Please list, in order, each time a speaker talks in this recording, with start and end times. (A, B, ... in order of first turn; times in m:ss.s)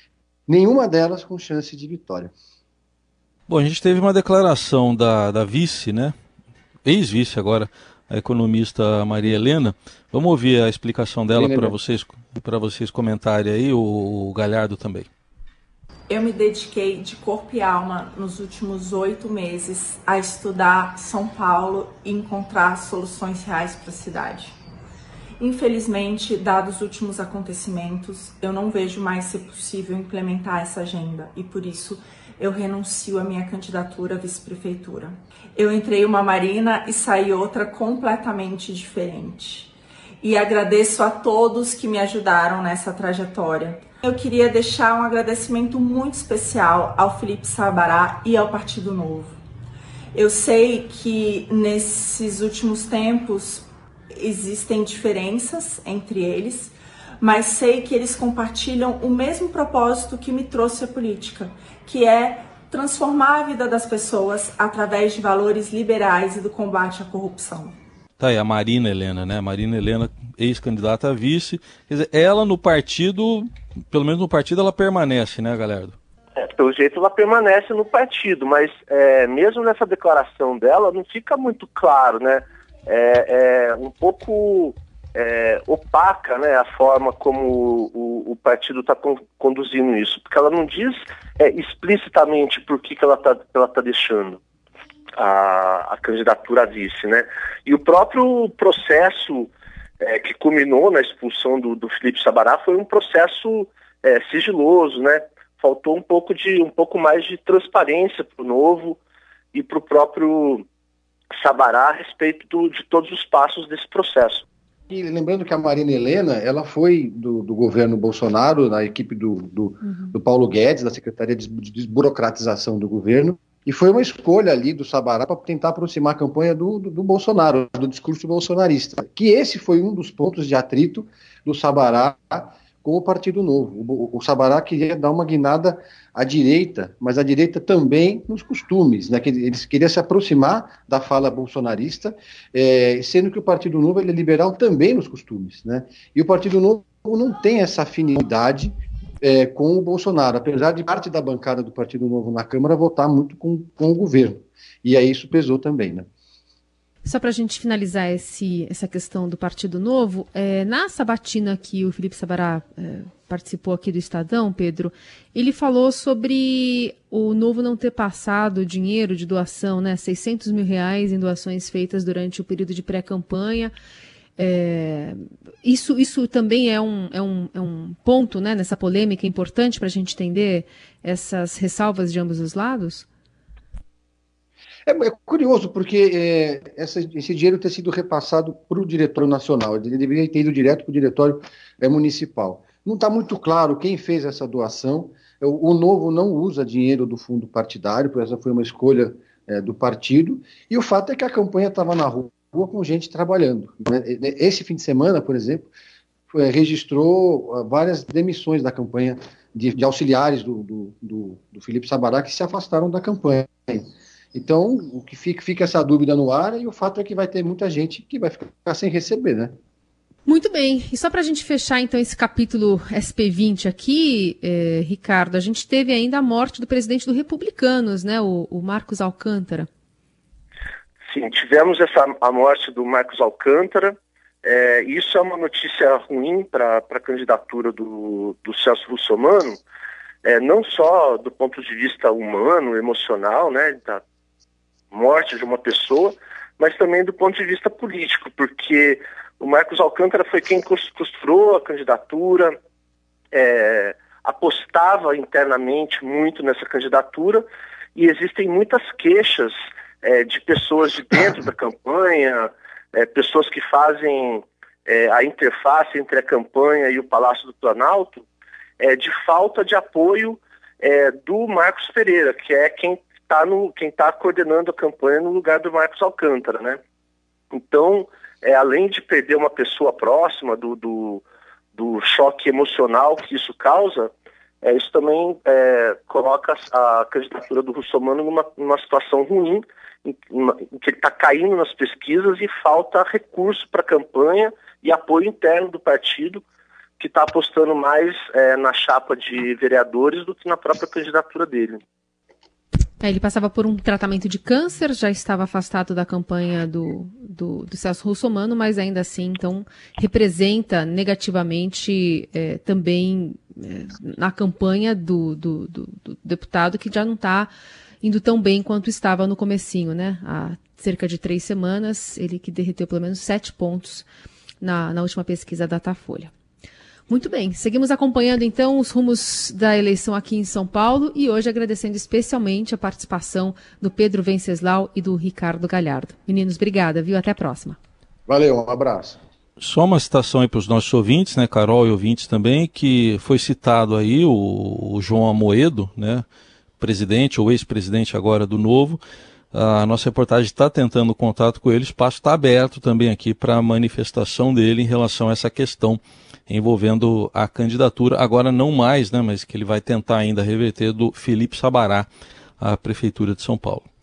0:00.5-0:02.3 A
0:03.5-0:06.2 B
0:06.8-0:15.1 B
0:11.3-0:11.8 A
0:16.1-0:24.5 C
0:25.4-0:49.4 C
0:50.1-1:07.8 C
1:08.2-1:16.0 B
1:16.4-1:34.4 D
1:35.2-1:49.0 D
1:49.5-1:50.6 D
1:51.4-1:54.4 D
1:54.9-2:36.1 A
2:37.0-2:53.7 E
2:54.4-3:03.1 E
3:04.9-3:25.7 A
3:26.3-3:39.5 A
3:40.2-3:49.7 E
3:51.1-3:59.6 D
4:00.2-4:04.0 D
4:04.9-4:12.6 D
4:13.3-4:17.4 D
4:18.0-4:28.2 D
4:28.8-4:36.8 D
4:37.5-4:44.1 D
4:44.6-4:56.4 D
4:57.0-5:01.8 D
5:03.0-5:17.5 E
5:18.0-5:24.1 E
5:24.6-5:26.3 E
5:27.1-5:37.8 E
5:38.3-5:39.2 A
5:39.6-5:46.2 B
5:46.8-5:49.0 B
5:49.5-6:02.1 B
6:02.6-6:03.9 B